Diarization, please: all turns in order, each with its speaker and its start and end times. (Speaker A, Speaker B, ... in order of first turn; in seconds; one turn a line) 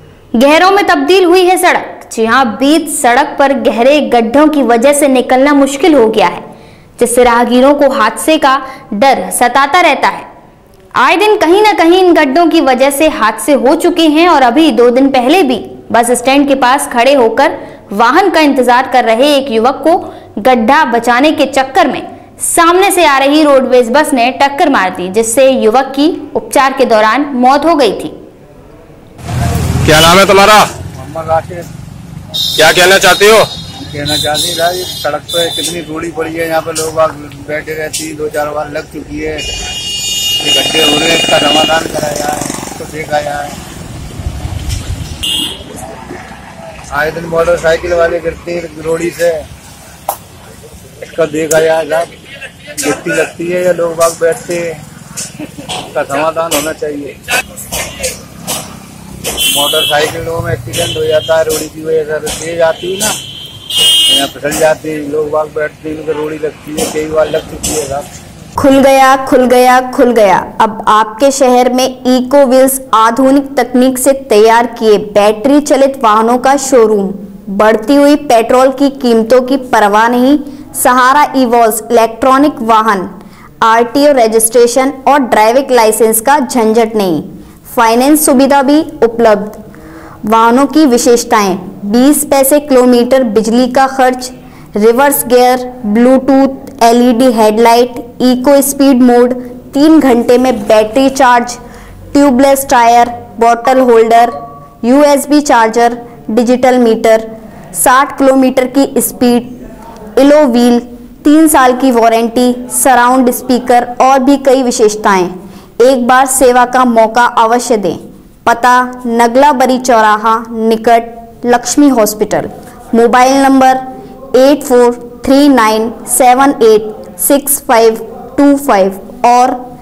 Speaker A: 0.3-6.4
Speaker A: 7.0-10.3
Speaker A: 10.9-28.1
Speaker B: 29.8-30.8
Speaker C: 30.9-31.7
Speaker B: 32.5-33.5
Speaker C: 33.8-39.4
Speaker C: 40.4-43.5
Speaker C: 46.9-49.5
Speaker C: 51.0-52.1
Speaker C: 52.8-54.8
Speaker C: 55.9-57.1
Speaker C: 59.5-63.1
Speaker C: 64.1-68.0
Speaker D: 68.6-83.1
Speaker D: 83.6-89.6
Speaker D: 90.3-101.6
Speaker D: 102.1-109.6
Speaker D: 110.2-123.8
Speaker D: 124.3-129.6